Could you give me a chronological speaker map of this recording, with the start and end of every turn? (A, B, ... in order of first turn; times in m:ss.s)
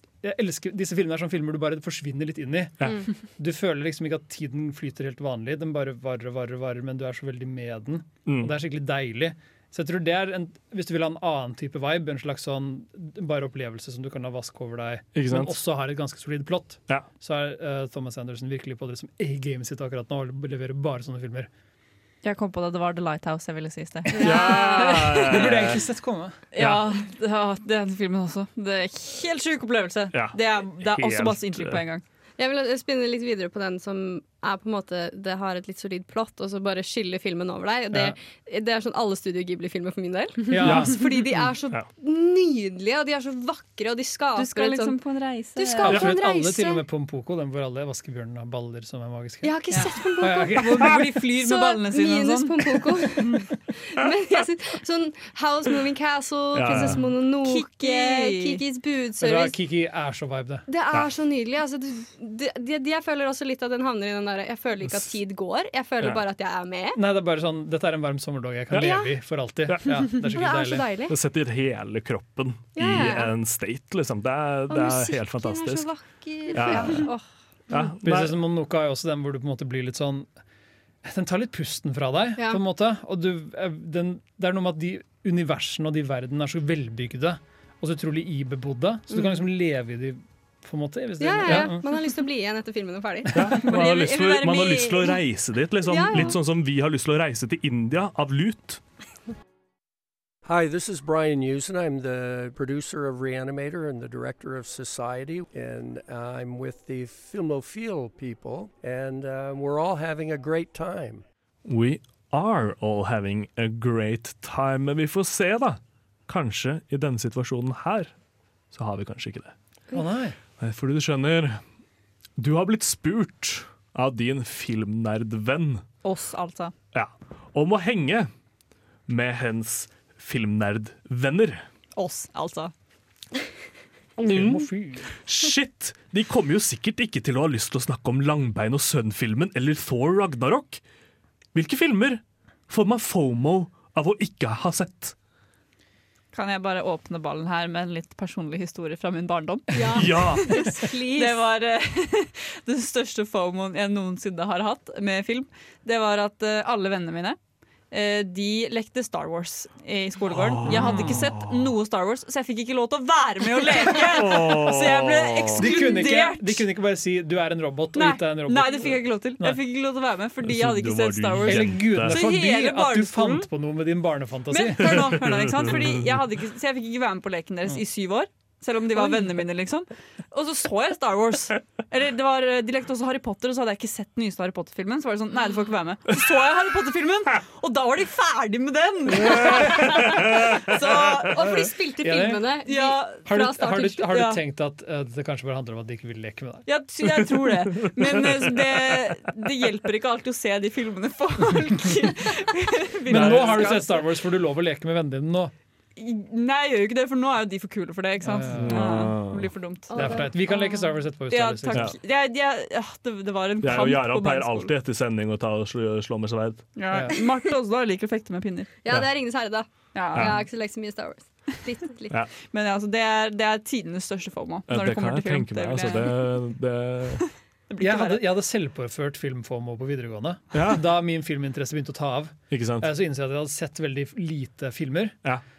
0:00.2-0:21.5 A
0:08.3-0:08.5 B
0:15.2-0:15.6 B
0:22.2-0:25.3 C
0:24.1-0:26.4 A
0:24.2-0:25.8 B
0:26.5-0:32.0 C
0:26.6-0:26.8 B
0:30.1-0:31.8 B
0:32.4-0:45.0 D
0:40.5-0:41.4 A
0:40.6-0:40.9 B
0:44.4-0:46.0 C
0:45.6-0:46.8 D
0:45.8-0:51.0 A
0:49.4-0:59.6 D
0:49.7-0:52.5 C
0:53.2-0:53.5 C
0:56.5-0:57.0 B
0:57.4-0:58.6 C
0:59.2-1:00.7 A
1:00.7-1:07.0 D
1:04.8-1:05.1 B
1:07.0-1:10.8 A
1:08.8-1:09.1 D
1:09.7-1:09.9 B
1:10.2-1:11.2 D
1:11.1-1:15.9 B
1:12.8-1:13.3 D
1:14.7-1:17.9 D
1:16.5-1:17.1 B
1:17.7-1:18.4 B
1:18.0-1:20.3 A
1:21.0-1:31.9 A
1:29.1-1:29.4 D
1:31.2-1:35.2 D
1:33.3-1:38.8 B
1:35.8-1:36.4 D
1:40.4-1:51.2 E
1:51.7-1:58.1 B
1:58.7-1:59.5 B
1:59.9-2:00.4 A
2:00.6-2:01.6 B
2:02.4-2:05.8 B
2:06.0-2:06.7 C
2:06.9-2:08.3 B
2:09.1-2:11.6 B
2:12.0-2:12.7 C
2:14.2-2:15.1 A
2:14.3-2:14.7 B
2:15.2-2:20.8 B
2:21.6-2:25.2 B
2:26.3-2:30.5 C
2:29.7-2:31.4 D
2:30.0-2:30.5 B
2:31.2-2:37.4 C
2:37.9-2:46.6 C
2:40.3-2:41.7 B
2:40.7-2:41.2 A
2:44.0-2:45.6 B
2:45.6-2:49.6 A
2:48.0-2:53.5 C
2:50.4-2:52.2 B
2:51.4-2:55.2 A
2:54.5-3:11.4 C
2:54.8-2:56.0 B
3:09.2-3:10.6 B
3:10.6-3:14.1 D
3:12.0-3:12.5 A
3:12.6-3:13.3 C
3:13.3-3:16.7 A
3:14.1-3:14.4 C
3:16.7-3:23.9 C
3:23.1-3:25.5 A
3:23.1-3:23.7 B
3:26.0-3:30.5 C
3:28.2-3:29.1 A
3:28.5-3:29.5 B
3:29.9-3:30.7 D
3:29.9-3:31.9 A
3:31.3-3:34.7 C
3:33.6-3:36.6 B
3:36.8-3:38.7 C
3:38.8-3:42.2 D
3:39.9-3:40.3 C
3:42.5-3:46.3 C
3:44.7-3:47.2 B
3:47.7-3:48.3 C
3:47.8-3:55.2 A
3:50.5-3:50.8 B
3:52.5-3:52.9 B